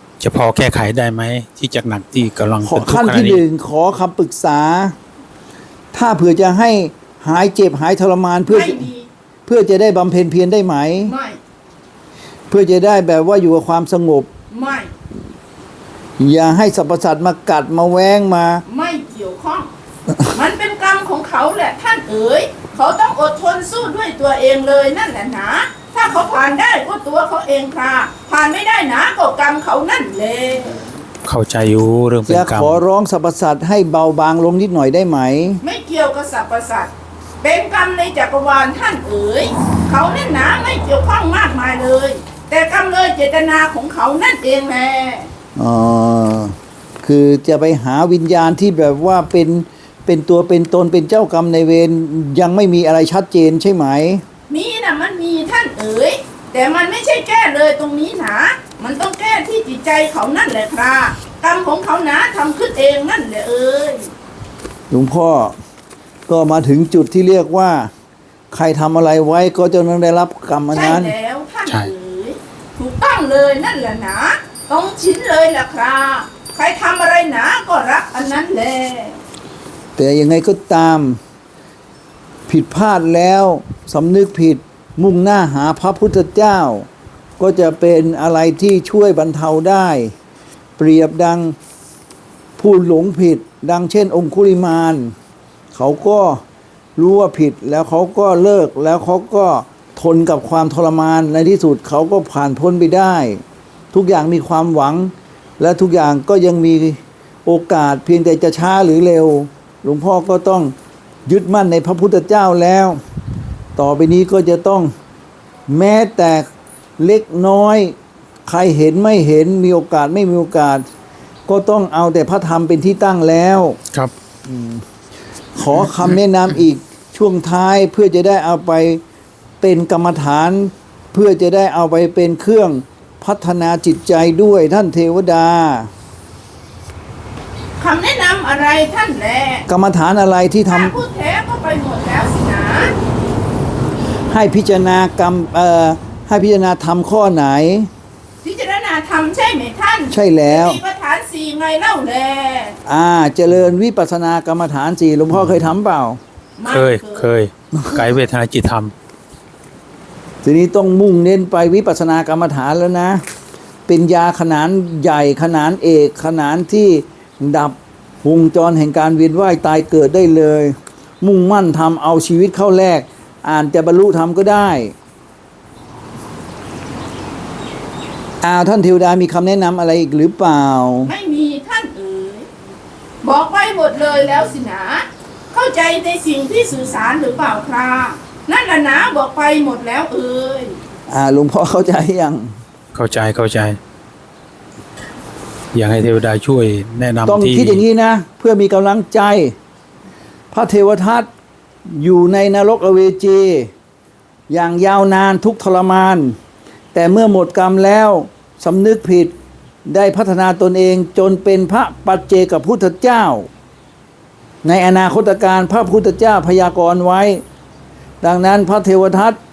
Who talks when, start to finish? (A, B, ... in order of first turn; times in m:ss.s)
0:00.2-0:03.4 A
0:02.6-0:05.0 B
0:05.9-0:08.8 B
0:08.5-0:09.1 C
0:09.4-0:11.1 B
0:11.0-0:11.4 C
0:12.5-0:14.3 B
0:14.5-0:14.9 C
0:16.2-0:18.6 B
0:18.7-0:19.7 C
0:20.3-0:30.8 C
0:31.2-0:32.8 A
0:32.3-0:35.6 B
0:35.6-0:36.9 C
0:37.4-0:45.3 C
0:45.6-0:54.2 B
0:54.5-1:04.1 C
1:04.9-1:05.5 B
1:06.3-1:07.9 B
1:08.5-1:11.1 B
1:10.7-1:19.2 C
1:11.6-1:11.9 A
1:20.0-1:21.2 B
1:22.5-1:26.9 B
1:27.4-1:30.1 B
1:30.8-1:31.6 B
1:32.6-1:35.1 B
1:35.7-1:36.4 B
1:37.0-1:43.4 B
1:43.9-1:50.7 B
1:51.2-1:53.0 B
1:53.8-1:54.9 B
1:55.7-1:56.5 B
1:57.0-1:57.9 B
1:58.4-2:00.8 B
2:01.5-2:03.8 B
2:04.4-2:04.8 B
2:05.6-2:09.0 B
2:09.6-2:15.9 B
2:17.8-2:19.6 C
2:19.7-2:20.9 B
2:20.7-2:22.9 C
2:24.3-2:27.9 B
2:28.4-2:32.8 C
2:30.1-2:30.8 B
2:32.8-2:36.2 B
2:36.6-2:37.2 C
2:36.6-2:38.9 A
2:37.7-2:38.0 B
2:40.4-2:43.2 B
2:43.9-2:54.9 B
2:58.4-3:01.1 B
3:01.1-3:02.5 C
3:03.2-3:10.8 C
3:11.1-3:12.5 B
3:12.9-3:13.8 A
3:15.7-3:17.8 A
3:17.3-3:19.5 B
3:20.5-3:21.3 B
3:21.9-3:23.7 B
3:24.5-3:26.4 B
3:26.9-3:29.3 B
3:29.9-3:33.5 B
3:34.6-3:37.4 B
3:38.2-3:39.4 B